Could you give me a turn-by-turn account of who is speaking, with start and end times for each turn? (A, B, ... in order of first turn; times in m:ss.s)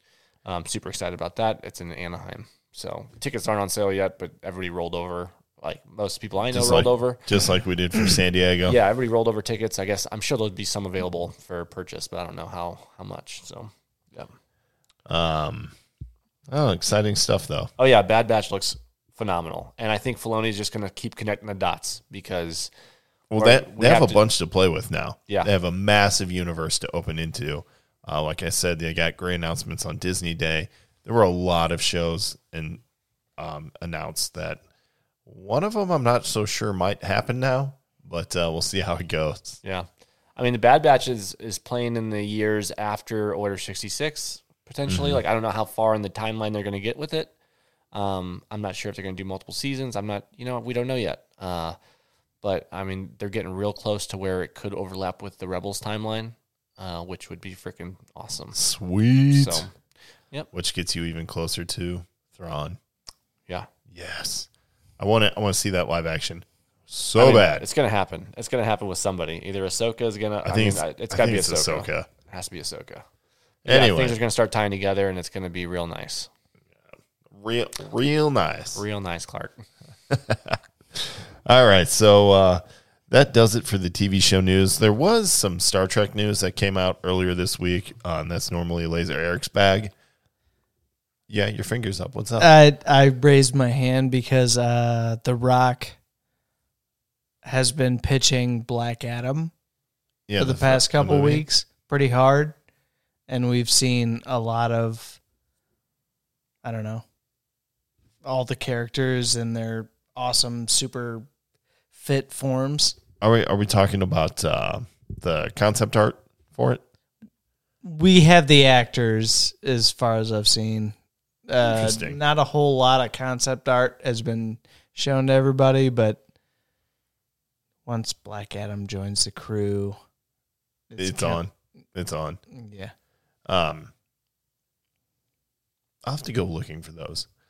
0:00.4-0:07.2 A
0:06.5-0:08.8 B
0:08.6-0:14.3 A
0:15.1-0:15.7 B
0:16.5-0:17.7 B
0:17.8-0:22.7 A
0:23.3-0:32.8 B
0:23.3-0:24.2 A
0:33.4-0:34.6 B
0:35.2-0:39.6 B
0:39.6-0:47.3 A
0:44.9-0:45.2 B
0:47.9-0:51.8 A
0:52.4-0:58.6 A
0:58.5-0:59.6 B
0:59.3-0:59.7 A
1:00.5-1:02.8 B
1:03.9-1:04.5 B
1:05.0-1:07.6 B
1:07.2-1:13.0 A
1:10.4-1:12.1 B
1:13.6-1:14.2 B
1:13.6-1:16.3 A
1:17.3-1:18.8 B
1:18.7-1:19.6 A
1:20.1-1:29.9 B
1:31.3-1:32.5 B
1:32.4-1:36.0 C
1:37.4-1:39.5 C
1:40.3-1:41.4 B
1:40.4-1:42.6 C
1:43.3-1:45.2 C
1:46.6-1:47.0 C
1:48.2-1:51.2 C
1:51.9-1:53.0 C
1:53.2-1:56.8 B
1:57.8-2:01.0 C
2:01.5-2:06.2 C
2:01.6-2:02.2 B
2:07.8-2:10.0 C
2:10.9-2:11.4 C
2:11.0-2:12.4 B
2:12.5-2:12.9 C
2:13.5-2:13.9 B
2:16.0-2:17.3 B